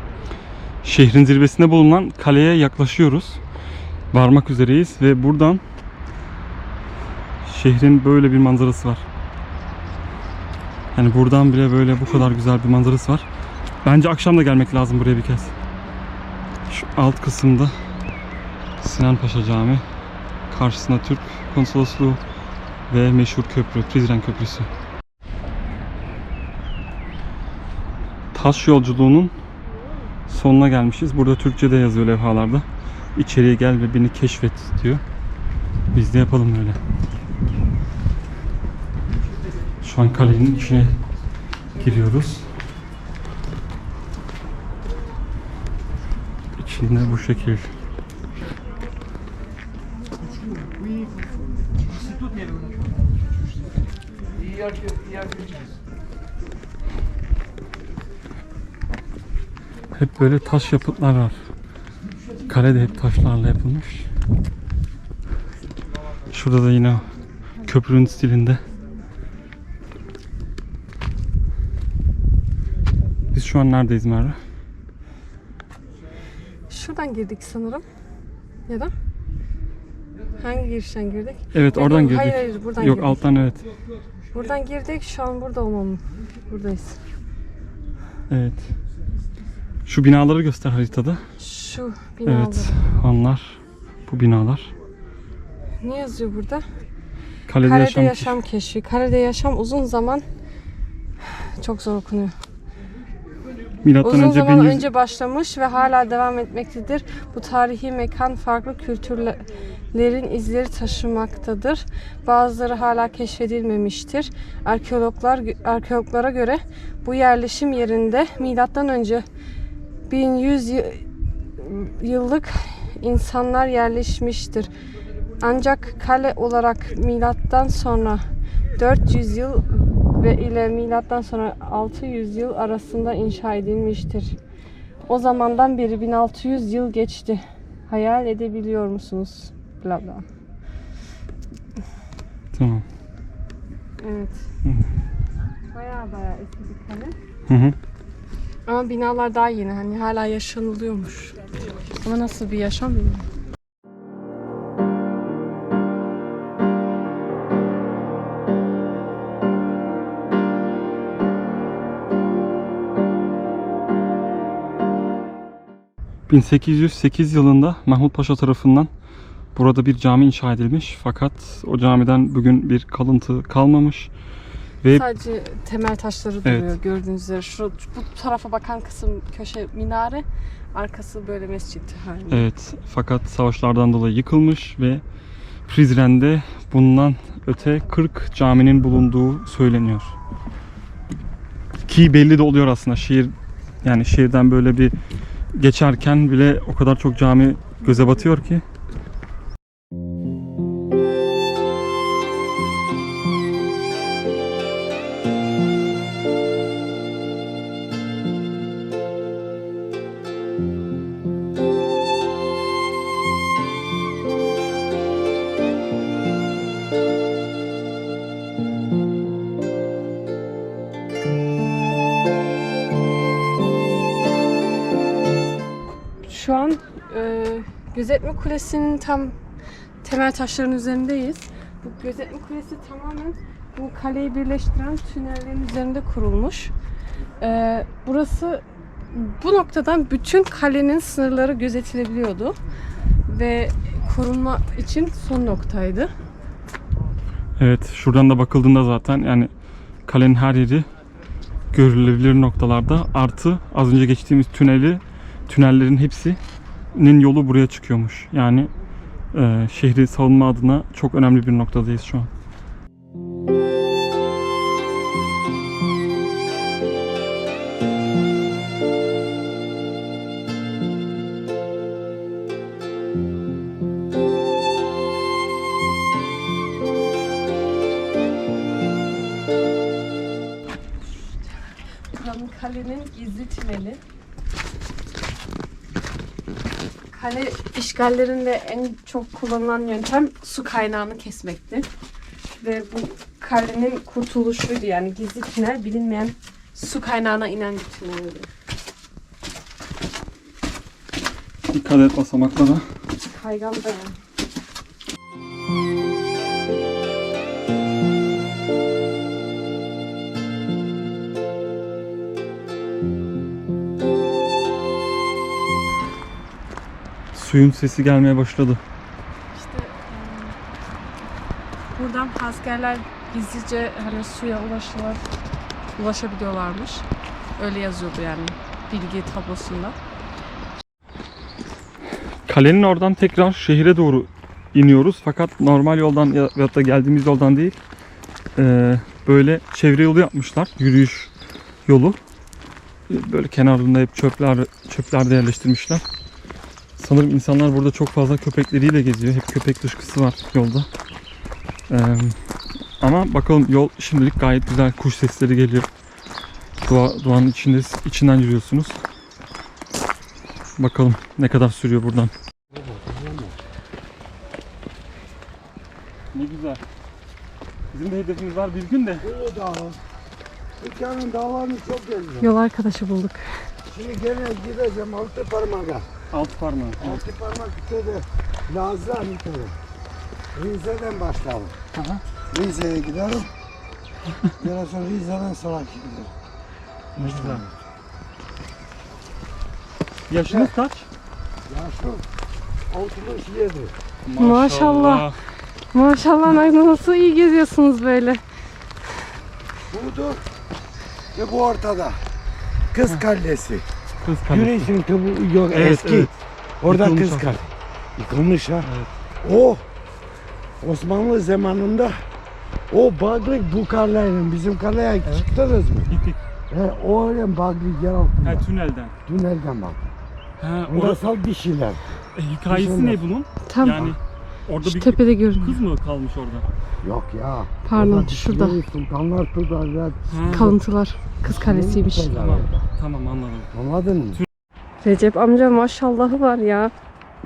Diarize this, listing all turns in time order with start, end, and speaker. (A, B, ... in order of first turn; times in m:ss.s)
0:00.8-0:03.4 A
0:04.1-0:05.6 A
0:07.4-0:09.0 A
0:10.9-0:13.2 A
0:13.8-0:15.5 A
0:16.7-0:17.7 A
0:18.8-0:19.8 A
0:20.5-0:22.2 A
0:22.9-0:24.7 A
0:28.3-0:29.3 A
0:30.3-0:35.0 A
0:35.9-0:36.8 A
0:39.8-0:40.9 A
0:41.8-0:42.4 A
0:46.6-0:47.6 A
0:59.9-1:01.4 A
1:02.5-1:04.1 A
1:06.3-1:07.0 A
1:07.6-1:08.6 A
1:13.3-1:14.4 A
1:16.7-1:17.8 B
1:20.4-1:23.4 B
1:21.5-1:23.6 A
1:24.3-1:27.0 B
1:28.3-1:28.7 A
1:29.9-1:31.2 A
1:31.4-1:32.8 B
1:32.2-1:34.7 A
1:35.8-1:36.6 B
1:37.5-1:38.4 A
1:37.6-1:40.2 B
1:41.6-1:42.3 B
1:43.8-1:44.8 A
1:44.0-1:59.2 B
2:00.1-2:01.0 B
2:01.6-2:04.7 B
2:05.4-2:08.2 B
2:08.8-2:14.3 B
2:15.1-2:20.2 B
2:22.5-2:22.8 A
2:24.0-2:24.3 B
2:25.7-2:27.2 B
2:27.5-2:27.8 A
2:28.7-2:31.4 B
2:32.0-2:33.2 B
2:46.3-2:48.9 A
2:49.5-2:54.1 A
2:54.9-3:02.4 B
2:56.4-2:56.7 A
3:02.3-3:05.0 A
3:05.7-3:10.1 A
3:11.9-3:14.9 A
3:15.5-3:18.6 A
3:46.2-3:49.3 B
3:50.0-3:56.7 B
3:57.4-3:58.6 B
3:59.1-4:02.6 B
4:03.3-4:06.1 B
4:07.6-4:09.5 A
4:10.0-4:10.9 A
4:11.7-4:16.4 A
4:16.9-4:18.7 A
4:19.3-4:22.3 A
4:42.1-4:44.0 B
4:47.1-4:51.9 B
4:52.5-4:58.5 B
5:01.7-5:02.8 A
5:03.2-5:04.1 B
5:17.3-5:18.8 A
5:19.5-5:20.6 B
5:21.9-5:25.2 B
5:26.0-5:27.0 B
5:27.6-5:30.0 B
5:32.5-5:37.8 A
5:38.6-5:41.3 A
5:41.8-5:42.2 A
5:43.1-5:46.0 A
5:47.0-5:50.9 A
5:51.9-5:52.4 A
5:53.0-5:55.9 A
5:56.8-5:59.0 A
6:00.8-6:02.3 A
6:02.7-6:03.5 C
6:06.3-6:06.8 A
6:07.9-6:09.2 A
6:09.2-6:10.0 C
6:10.8-6:12.5 C
6:12.4-6:13.4 B
6:13.9-6:16.1 C
6:16.3-6:17.2 A
6:17.0-6:19.7 C
6:20.5-6:21.8 C
6:21.9-6:22.2 A
6:22.5-6:23.5 C
6:24.6-6:26.3 C
6:27.2-6:27.6 A
6:27.2-6:27.7 C
6:30.3-6:31.1 A
6:31.7-6:32.2 C
6:32.9-6:33.9 C
6:34.2-6:35.4 A
6:34.4-6:35.3 B
6:35.9-6:38.4 B
6:39.9-6:40.4 C
6:41.3-6:42.2 C
6:42.9-6:43.8 C
6:44.2-6:44.9 A
6:44.5-6:48.9 C
6:45.7-6:47.6 A
6:48.8-6:49.1 A
6:49.4-6:49.8 C
6:50.8-6:52.2 C
6:52.9-6:56.1 C
6:56.1-6:56.4 A
6:56.7-6:58.6 C
6:58.4-6:59.1 A
6:59.2-7:00.0 C
7:00.6-7:01.2 A
7:00.9-7:02.1 C
7:02.3-7:06.6 A
7:02.7-7:03.2 C
7:03.7-7:04.1 B
7:04.8-7:05.8 B
7:07.0-7:10.8 C
7:07.8-7:08.8 B
7:10.3-7:10.7 A
7:10.5-7:12.5 B
7:11.4-7:12.8 C
7:12.3-7:13.7 A
7:13.7-7:14.4 C
7:15.0-7:16.9 B